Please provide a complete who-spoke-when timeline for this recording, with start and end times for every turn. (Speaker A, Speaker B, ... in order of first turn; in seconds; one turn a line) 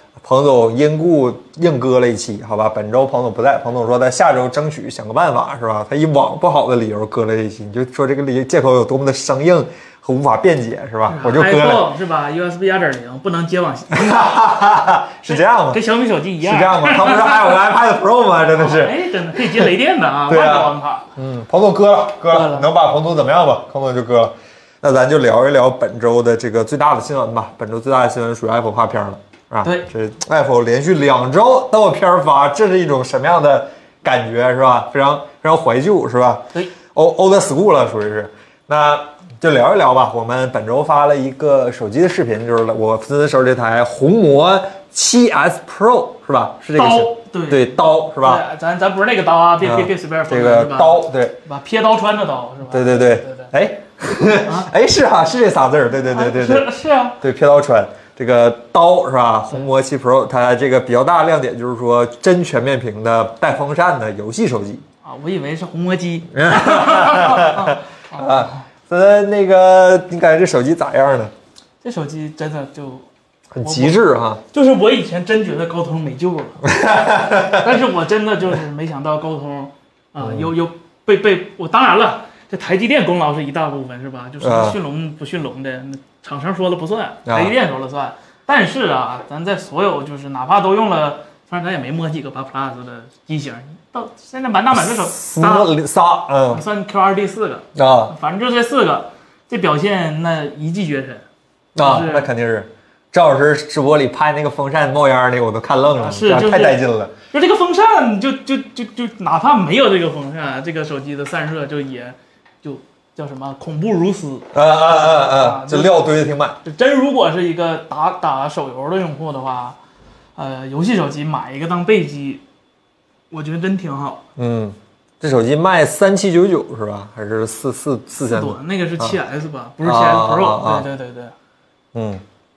Speaker A: 0.2-11.9
Speaker B: 11.1-14.5
Speaker A: 13.9-15.8
Speaker B: 15.3-17.6
Speaker A: 16.4-19.7
Speaker B: 18.6-21.1
Speaker A: 20.3-48.4
Speaker B: 22.3-22.7
Speaker B: 46.8-53.5
Speaker A: 49.6-51.4
Speaker A: 52.7-64.8
Speaker B: 56.1-57.2
Speaker B: 65.0-68.6
Speaker A: 66.3-71.3
Speaker B: 71.8-73.1
Speaker A: 73.5-74.4
Speaker B: 73.6-76.7
Speaker A: 76.6-77.8
Speaker B: 77.5-95.7
Speaker A: 80.2-80.5
Speaker A: 84.4-84.8
Speaker A: 87.3-87.5
Speaker A: 94.7-96.6
Speaker B: 96.5-101.2
Speaker A: 97.8-98.1
Speaker A: 101.8-107.1
Speaker B: 101.8-102.3
Speaker B: 105.9-119.8
Speaker A: 114.5-116.6
Speaker B: 120.4-122.4
Speaker B: 123.3-124.2
Speaker A: 124.4-129.2
Speaker B: 128.2-131.3
Speaker A: 129.8-130.9
Speaker A: 131.9-132.2